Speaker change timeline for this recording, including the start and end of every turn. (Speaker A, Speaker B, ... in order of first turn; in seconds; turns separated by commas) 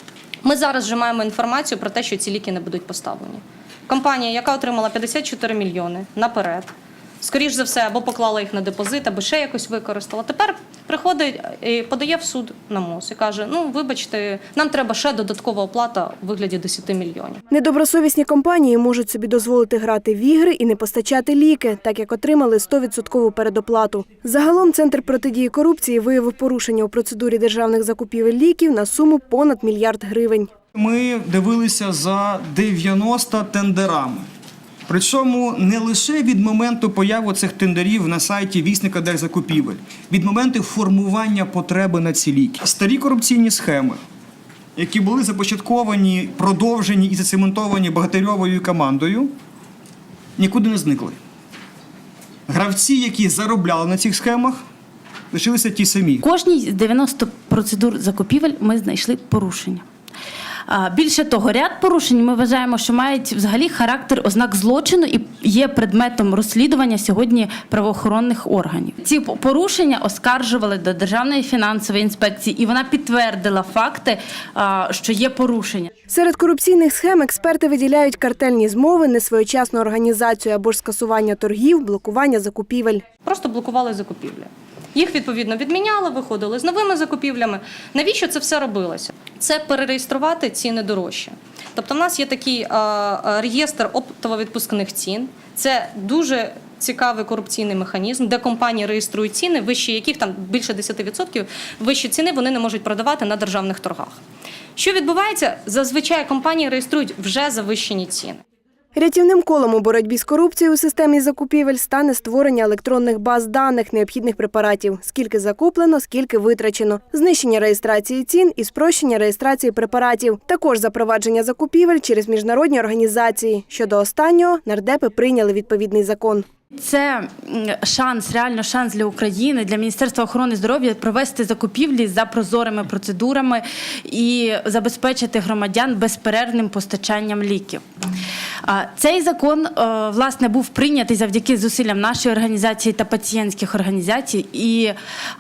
Speaker A: 0.4-17.4, Speaker B: 17.5-30.5, Speaker C: 30.7-34.3, Speaker C: 34.9-44.0, Speaker C: 44.8-49.3, Speaker C: 50.4-51.2, Speaker C: 52.5-54.6, Speaker C: 55.3-56.2, Speaker D: 56.2-59.8, Speaker D: 60.7-75.9, Speaker B: 76.1-83.0, Speaker A: 83.2-104.2, Speaker A: 104.8-108.4, Speaker B: 108.9-126.4, Speaker D: 126.8-137.8, Speaker D: 138.7-144.9